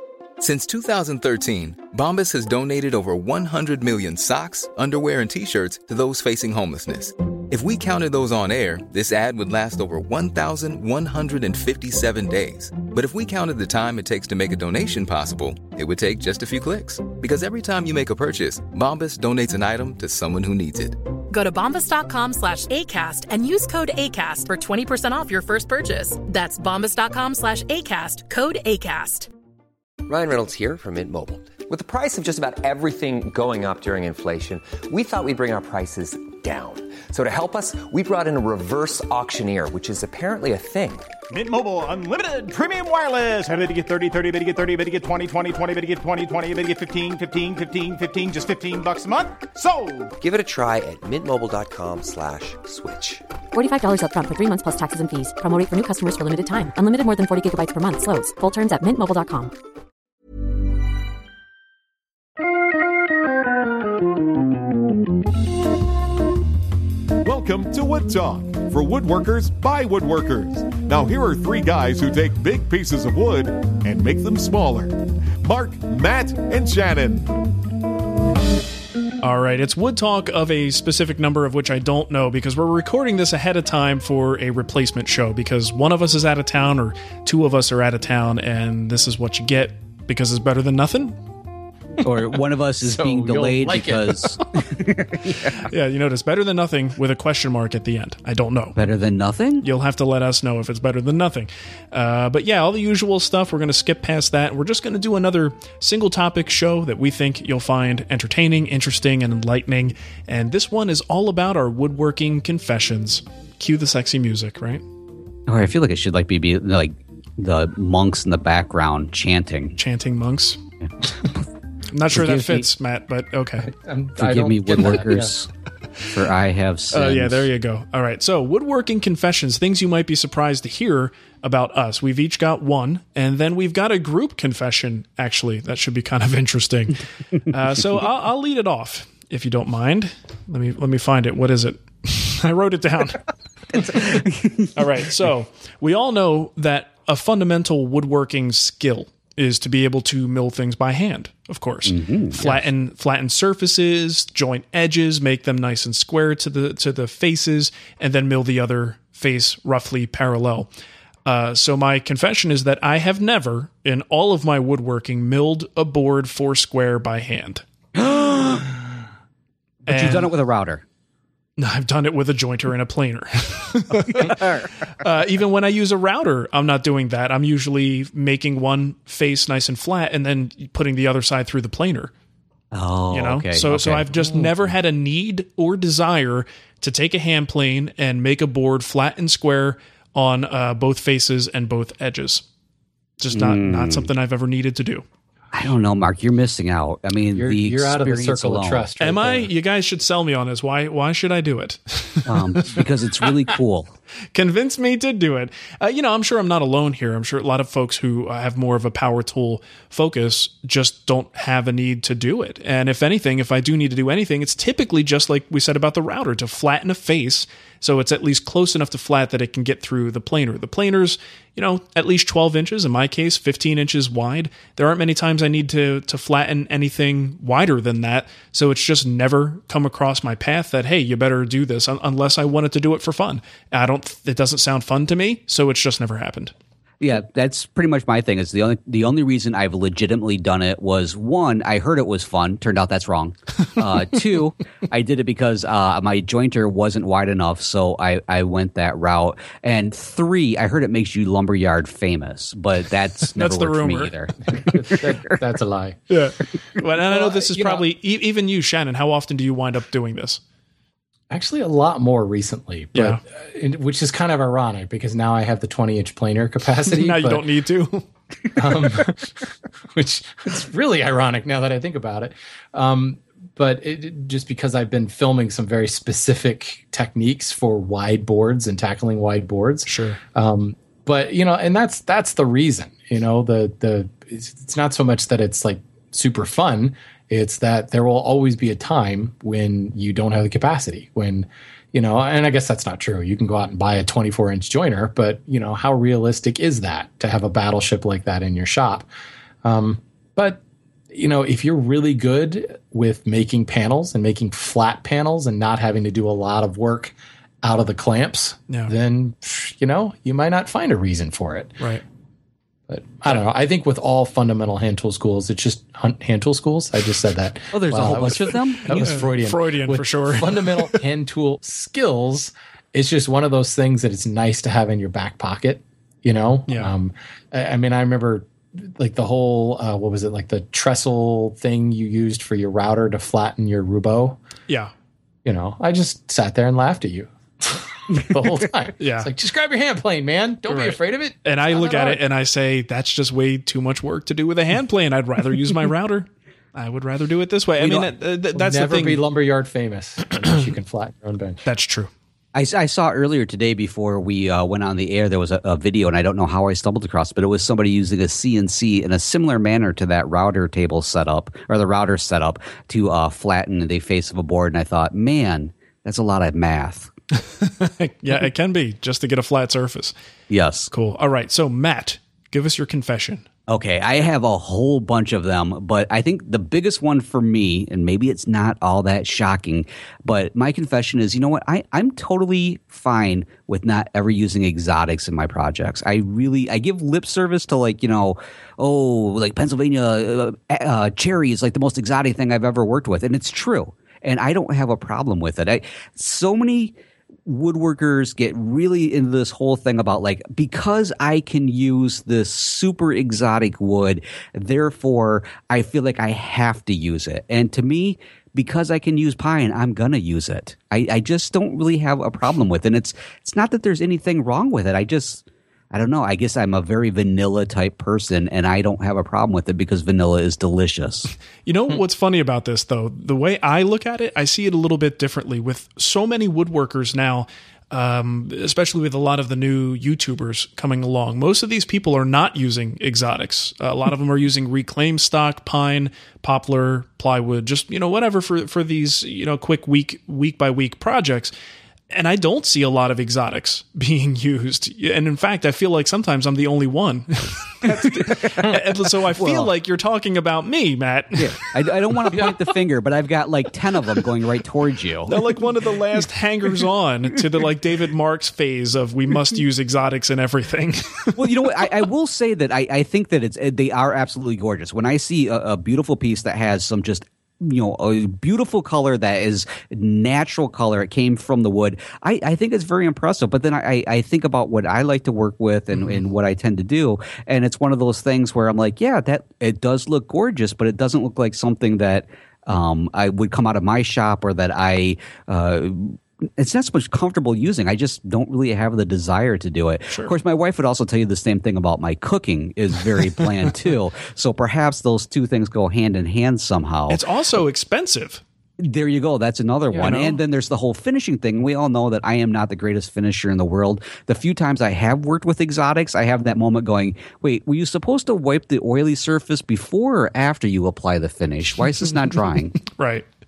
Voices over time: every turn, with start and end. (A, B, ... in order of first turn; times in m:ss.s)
0:00.4-0:21.0 A
0:21.3-0:29.3 B
0:30.0-0:41.1 C
0:41.3-0:50.1 D
0:50.2-0:53.2 C
0:53.5-0:59.5 E
1:07.2-1:17.3 F
1:19.2-1:31.2 G
1:32.0-1:35.6 H
1:32.8-1:34.2 I
1:35.5-1:38.8 G
1:38.8-1:39.6 H
1:39.6-1:54.8 G
1:55.5-1:59.7 H
1:59.8-2:00.6 G
2:01.9-2:03.7 G
2:02.1-2:02.7 H
2:03.6-2:05.3 I
2:04.2-2:05.5 H
2:06.1-2:07.5 H
2:06.9-2:23.2 G
2:23.7-2:24.7 H
2:24.7-2:40.7 G
2:31.9-2:32.4 H
2:41.2-2:47.6 G
2:48.0-2:48.7 H
2:49.9-2:50.3 G
2:49.9-2:50.8 H
2:51.6-3:02.1 G
2:54.1-2:54.7 H
3:02.7-3:04.6 H
3:03.1-3:12.4 G
3:13.2-3:15.0 G
3:13.3-3:14.1 H
3:15.5-3:18.9 H
3:17.3-3:19.5 I
3:19.0-3:22.3 G
3:22.2-3:23.9 H
3:24.3-3:56.5 G
3:57.0-4:15.4 H
4:13.4-4:14.1 G
4:14.5-4:16.0 I
4:16.1-4:20.4 G
4:17.0-4:17.8 I
4:21.3-4:27.5 I
4:22.9-4:23.2 G
4:26.9-4:28.0 G
4:28.6-4:59.1 I
4:39.8-4:40.2 G
4:59.6-5:11.8 I
5:12.9-5:34.4 I
5:17.7-5:19.1 H
5:18.9-5:21.0 G
5:26.7-5:26.9 G
5:35.4-5:42.2 I
5:39.0-5:39.3 G
5:40.7-5:49.2 G
5:47.8-5:51.6 I
5:51.6-5:52.1 G
5:52.5-6:07.1 H
6:07.4-6:10.1 G
6:10.5-6:10.9 H
6:10.9-6:13.4 G
6:13.7-6:36.9 H
6:37.4-7:01.3 H
7:01.6-7:21.5 G
7:22.1-7:31.7 G
7:27.8-7:29.7 H
7:31.4-7:35.4 H
7:35.3-7:41.4 G
7:41.3-8:17.2 H
7:55.9-7:56.2 G
8:17.1-8:18.4 G
8:18.8-8:32.8 H
8:20.0-8:20.4 G
8:32.9-8:33.3 G